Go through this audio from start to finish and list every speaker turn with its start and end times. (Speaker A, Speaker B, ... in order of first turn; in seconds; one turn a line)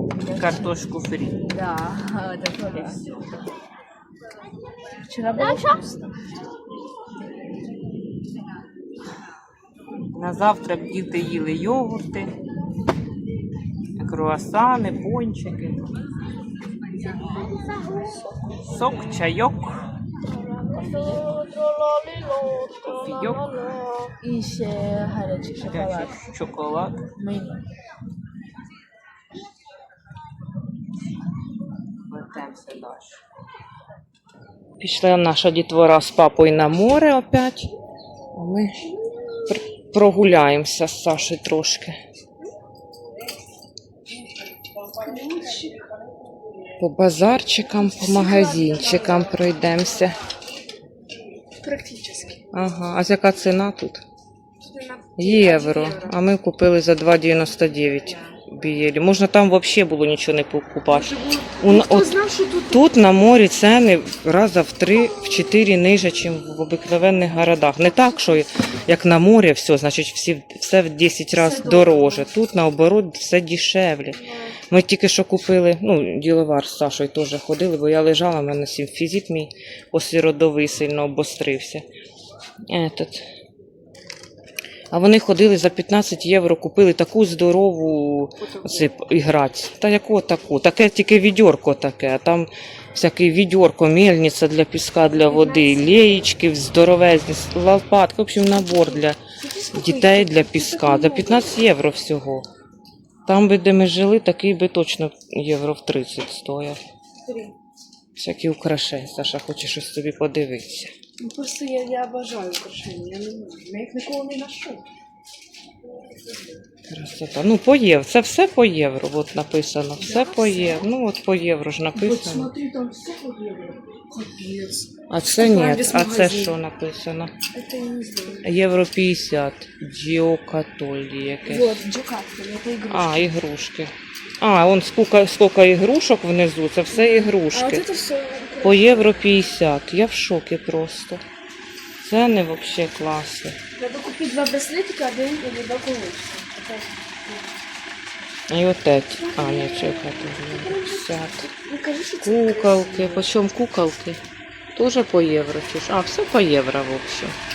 Speaker A: 0.2-0.7
Speaker B: 0.3-1.4
Speaker A: 1.4-3.0
Speaker B: 2.7-3.2
Speaker A: 5.0-6.1
Speaker B: 10.1-12.3
Speaker B: 14.0-15.9
Speaker A: 17.6-18.8
Speaker B: 18.6-19.9
Speaker A: 20.6-21.5
Speaker B: 22.8-23.8
Speaker A: 24.2-26.2
Speaker B: 25.6-27.1
Speaker A: 27.1-27.6
Speaker B: 32.1-33.2
Speaker B: 34.8-37.7
Speaker B: 38.3-38.8
Speaker B: 39.5-42.0
Speaker A: 44.8-46.0
Speaker B: 46.8-50.2
Speaker A: 47.8-49.3
Speaker A: 51.6-52.4
Speaker B: 52.5-54.0
Speaker A: 54.6-56.2
Speaker B: 55.2-62.1
Speaker A: 58.0-58.4
Speaker A: 60.9-62.9
Speaker B: 62.7-81.9
Speaker A: 71.3-72.3
Speaker A: 74.2-74.6
Speaker B: 82.7-83.2
Speaker B: 84.9-99.2
Speaker A: 88.4-89.1
Speaker A: 95.2-96.3
Speaker A: 98.7-101.6
Speaker B: 99.7-102.5
Speaker B: 103.2-106.8
Speaker A: 107.2-107.5
Speaker B: 108.1-110.9
Speaker A: 111.2-114.8
Speaker A: 116.1-116.4
Speaker B: 116.8-122.5
Speaker A: 120.0-120.9
Speaker A: 121.9-126.6
Speaker B: 125.1-127.3
Speaker A: 127.5-128.5
Speaker B: 128.4-131.8
Speaker A: 131.4-133.3
Speaker B: 132.9-137.8
Speaker A: 136.9-139.1
Speaker B: 138.6-141.2
Speaker B: 142.0-143.6
Speaker A: 143.7-147.6
Speaker B: 148.5-151.5
Speaker A: 149.2-153.3
Speaker B: 152.2-154.2
Speaker B: 154.7-157.3